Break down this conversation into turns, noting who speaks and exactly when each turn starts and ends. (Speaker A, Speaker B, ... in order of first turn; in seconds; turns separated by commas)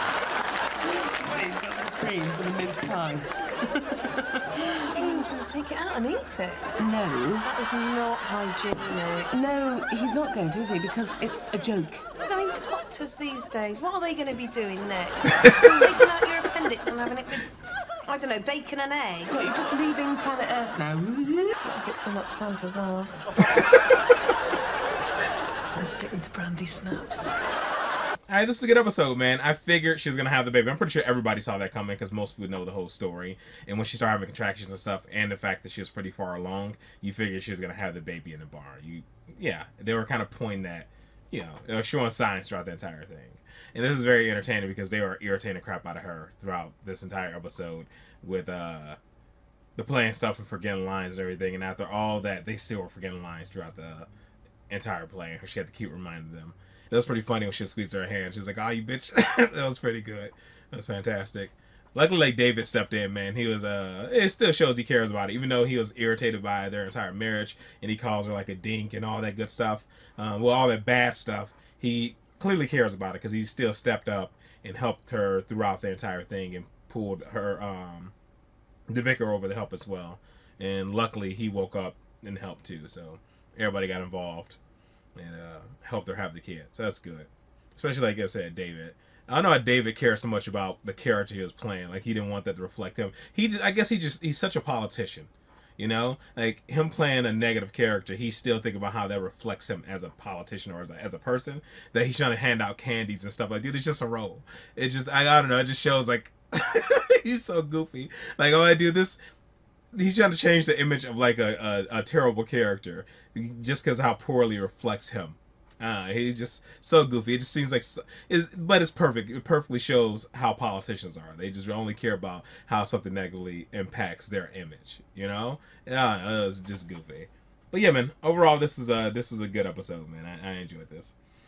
Speaker A: 1.0-5.3, Speaker B: 4.7-6.7, Speaker A: 6.8-7.5, Speaker B: 7.4-9.3, Speaker A: 9.3-12.0, Speaker B: 12.2-19.4, Speaker A: 15.6-16.0, Speaker A: 19.3-21.6, Speaker B: 21.6-23.5, Speaker B: 25.8-27.3, Speaker C: 28.3-49.0, Speaker C: 49.8-54.1, Speaker C: 54.7-78.1, Speaker C: 78.9-84.6, Speaker C: 85.2-109.2, Speaker C: 109.9-131.2